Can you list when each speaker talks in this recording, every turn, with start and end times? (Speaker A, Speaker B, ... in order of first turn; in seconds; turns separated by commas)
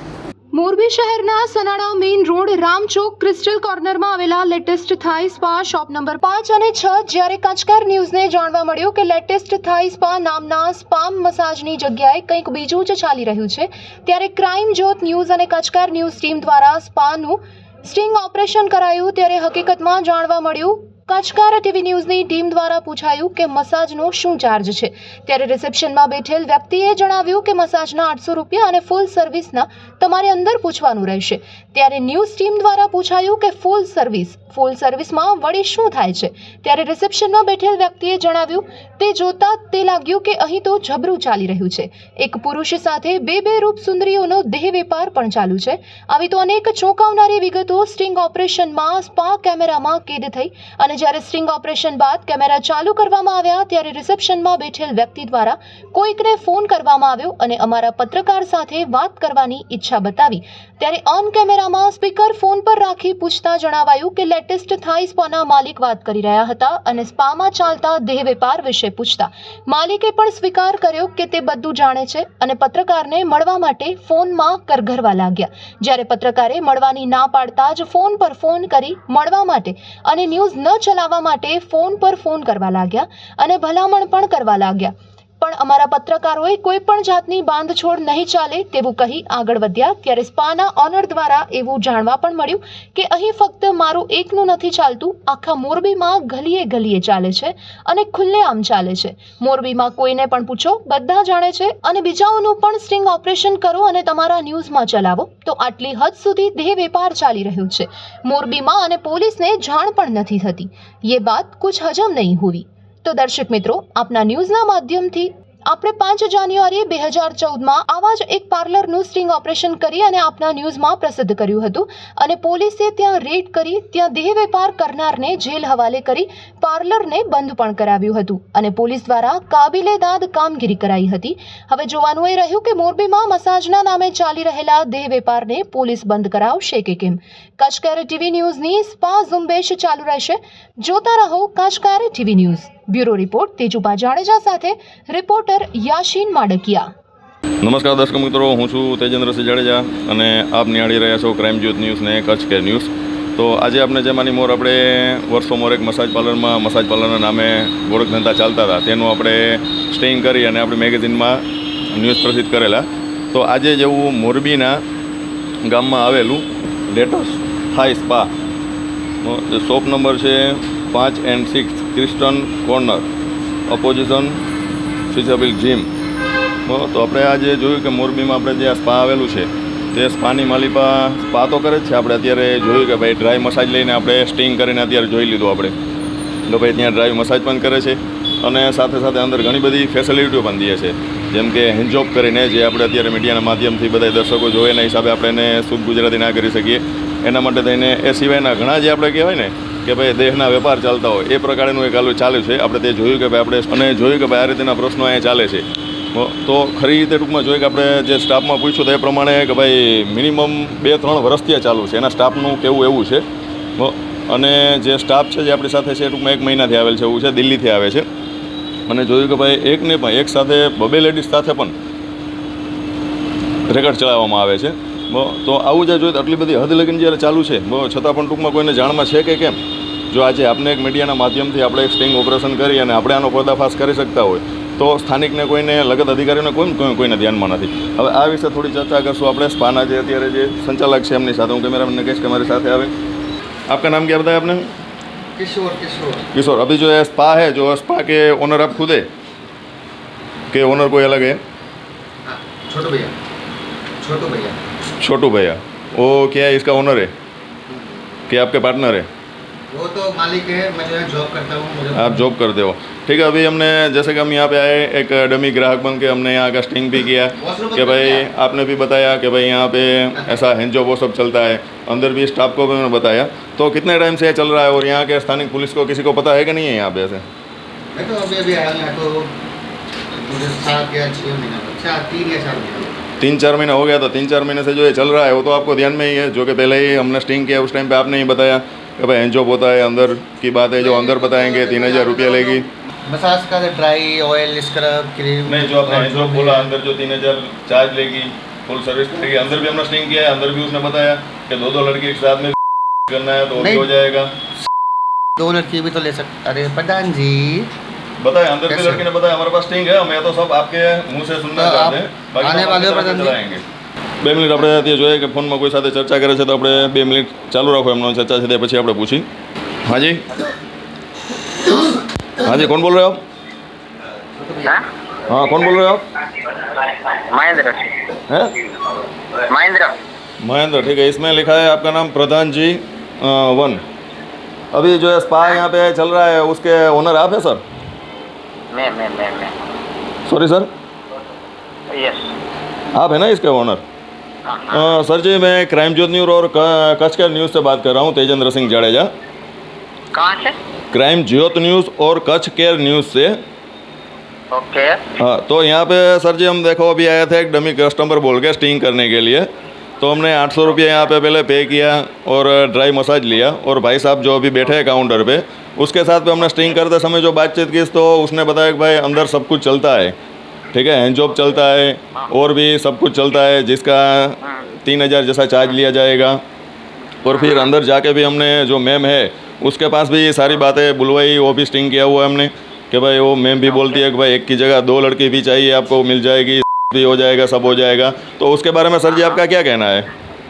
Speaker A: 0.5-146.9, Speaker B: 147.6-161.4, Speaker B: 161.9-164.7, Speaker B: 165.7-168.3, Speaker B: 169.2-173.0, Speaker B: 173.7-174.4, Speaker B: 175.1-175.9, Speaker B: 176.7-185.7, Speaker B: 186.5-213.2, Speaker B: 213.8-218.1, Speaker B: 218.9-221.7, Speaker B: 223.7-229.6, Speaker B: 230.1-242.9, Speaker B: 243.7-244.7, Speaker C: 245.4-246.2, Speaker B: 246.3-249.1, Speaker B: 250.5-251.4, Speaker C: 252.2-253.1, Speaker C: 254.0-254.6, Speaker B: 255.0-257.1, Speaker C: 257.7-258.0, Speaker B: 258.3-259.1, Speaker C: 259.7-262.3, Speaker B: 261.9-277.2, Speaker C: 267.4-268.3, Speaker C: 277.9-279.3, Speaker C: 280.1-282.9, Speaker B: 283.2-292.7, Speaker C: 290.8-296.7, Speaker B: 295.5-302.6, Speaker B: 303.1-304.3, Speaker C: 303.6-303.9, Speaker C: 305.4-307.7, Speaker B: 308.2-313.6, Speaker C: 308.7-309.1, Speaker C: 311.5-313.4, Speaker B: 314.2-319.2, Speaker B: 319.8-320.2, Speaker B: 322.4-323.2, Speaker C: 324.4-324.7, Speaker B: 325.3-326.0, Speaker D: 327.3-327.9, Speaker D: 329.5-330.0, Speaker B: 330.4-333.8, Speaker B: 334.7-337.6, Speaker D: 338.7-339.5, Speaker B: 340.2-340.7, Speaker D: 341.9-342.3, Speaker B: 342.9-343.8, Speaker D: 344.4-344.9, Speaker B: 344.7-349.1, Speaker D: 350.1-350.6, Speaker B: 350.9-353.4, Speaker D: 354.5-355.0, Speaker B: 355.2-359.4, Speaker B: 360.0-370.1, Speaker B: 370.7-376.4, Speaker B: 377.2-390.1, Speaker D: 377.3-377.7, Speaker D: 383.6-384.0, Speaker D: 389.1-389.4